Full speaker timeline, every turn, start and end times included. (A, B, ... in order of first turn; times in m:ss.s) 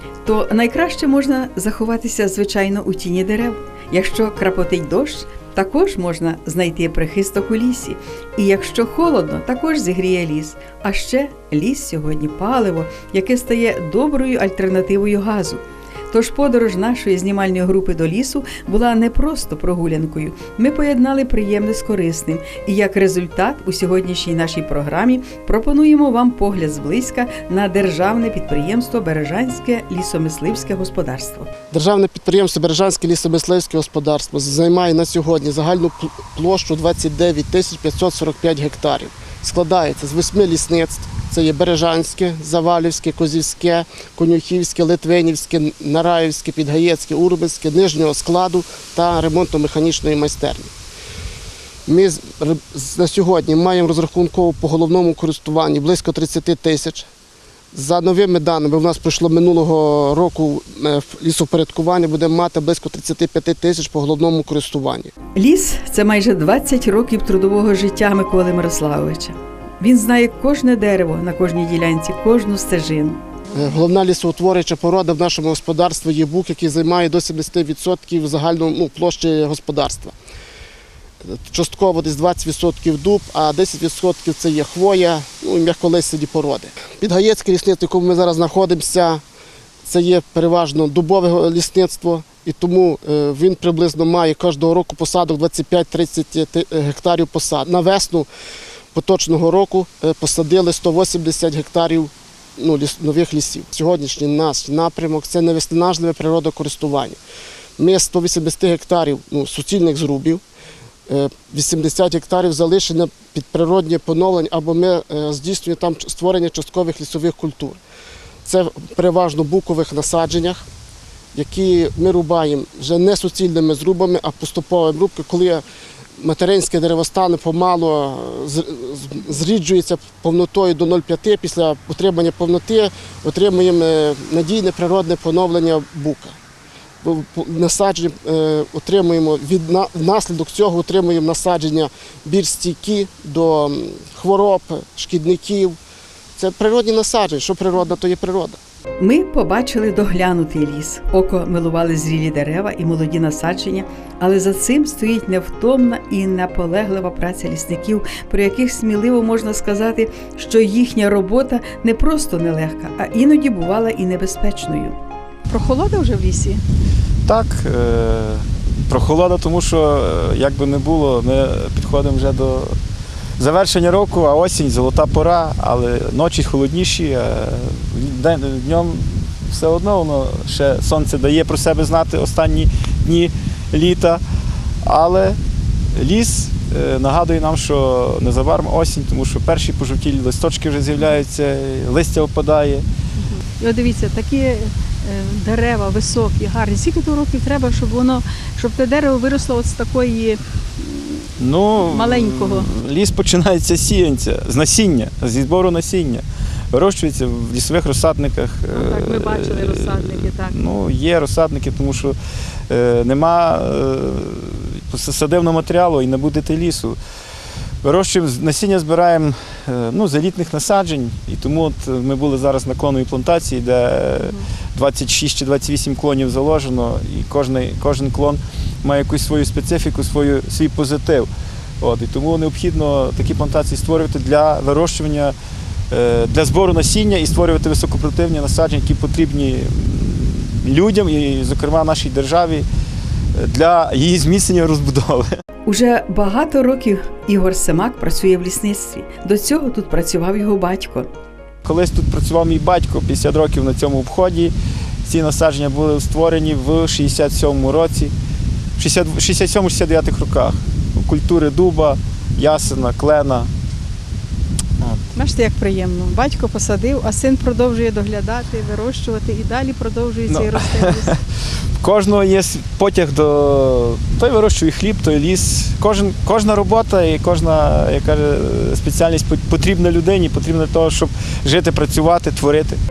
0:00.2-0:31.5 A
0:31.7-0:50.7 B
0:51.9-0:57.1 B
0:57.7-1:05.1 B
1:05.4-1:13.2 A
1:13.5-1:20.1 B
1:21.2-1:29.2 B
1:29.8-1:38.3 B
1:38.9-1:47.2 B
1:47.8-1:50.4 B
1:51.1-1:57.8 B
1:58.4-2:00.6 B
2:01.3-2:05.6 B
2:06.2-2:16.4 B
2:17.0-2:25.8 B
2:26.4-2:28.6 B
2:29.0-2:45.0 A
2:45.5-2:46.6 C
2:47.2-2:52.7 D
2:53.4-3:04.2 D
3:04.8-3:05.4 D
3:05.9-3:12.8 D
3:13.6-3:20.4 C
3:21.4-3:32.2 D
3:21.8-3:22.7 C
3:28.7-3:30.6 C
3:32.7-3:37.0 D
3:37.8-3:51.3 D
3:51.8-3:55.4 D
3:55.9-4:02.6 D
4:03.4-4:05.4 D
4:05.7-4:11.1 A
4:11.6-4:18.1 D
4:18.8-4:23.5 D
4:25.1-4:31.1 C
4:30.3-4:31.1 D
4:31.8-4:42.8 D